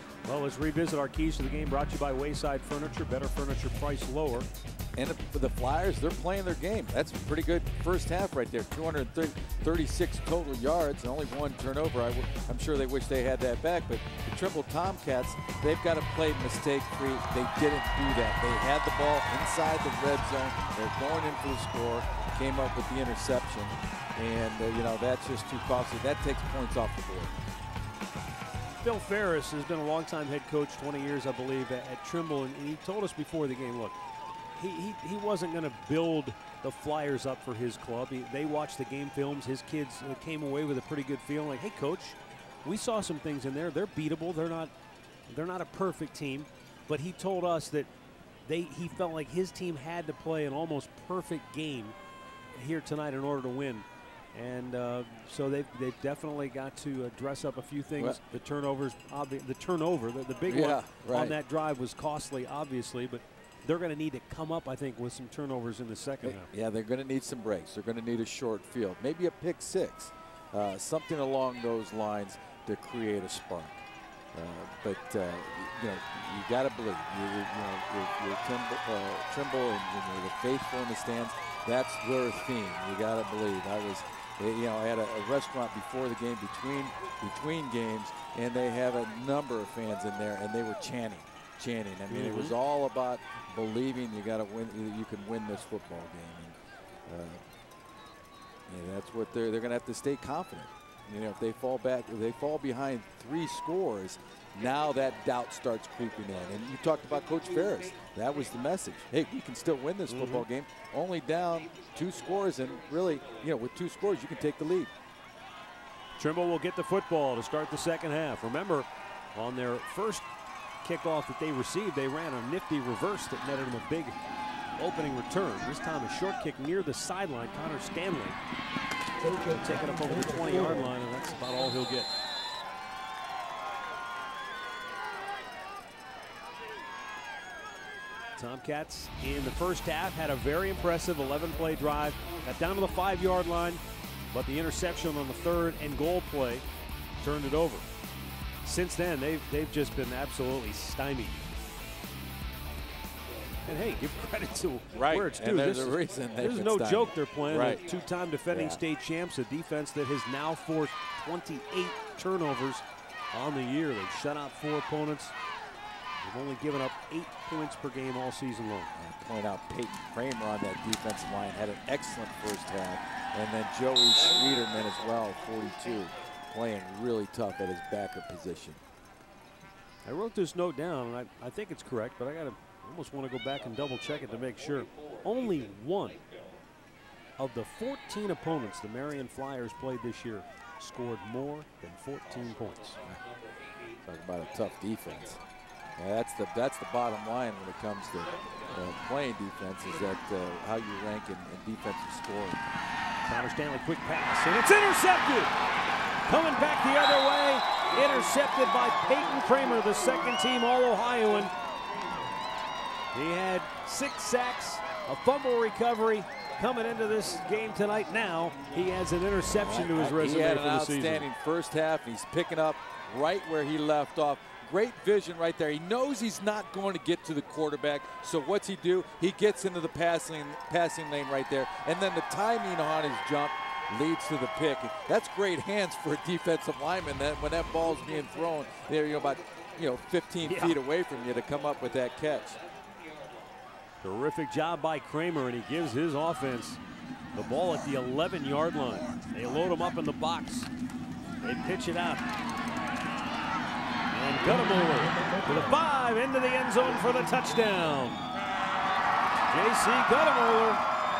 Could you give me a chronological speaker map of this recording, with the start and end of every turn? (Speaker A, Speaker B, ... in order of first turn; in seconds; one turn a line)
Speaker A: 0.2-4.5
Speaker B: 5.0-27.3
Speaker A: 28.8-34.0
Speaker A: 34.5-44.7
Speaker A: 45.3-47.9
Speaker A: 48.5-51.9
Speaker A: 52.5-66.5
Speaker B: 60.5-61.4
Speaker B: 66.2-73.8
Speaker B: 74.3-97.4
Speaker A: 92.1-92.5
Speaker B: 98.7-114.9
Speaker A: 110.1-110.4
Speaker A: 116.2-120.2
Speaker A: 120.8-124.2
Speaker A: 124.8-128.4
Speaker A: 129.4-132.1
Speaker A: 138.3-143.8
Speaker A: 144.3-146.6
Speaker A: 147.2-147.8
Speaker A: 148.6-151.4
Speaker A: 153.7-165.3
Speaker B: 154.9-157.8
Speaker B: 158.5-158.8
Speaker A: 166.2-168.9
Speaker B: 168.9-178.8
Speaker A: 180.1-186.2
Speaker A: 187.4-193.0
Speaker B: 194.0-195.4
Speaker B: 196.0-202.6
Speaker A: 203.2-205.5
Speaker A: 206.2-211.5
Speaker A: 213.1-221.2
Speaker B: 219.5-242.6
Speaker A: 240.4-240.8
Speaker A: 244.0-246.8
Speaker A: 247.3-250.7
Speaker A: 251.4-252.2
Speaker A: 254.1-258.2
Speaker A: 259.5-260.8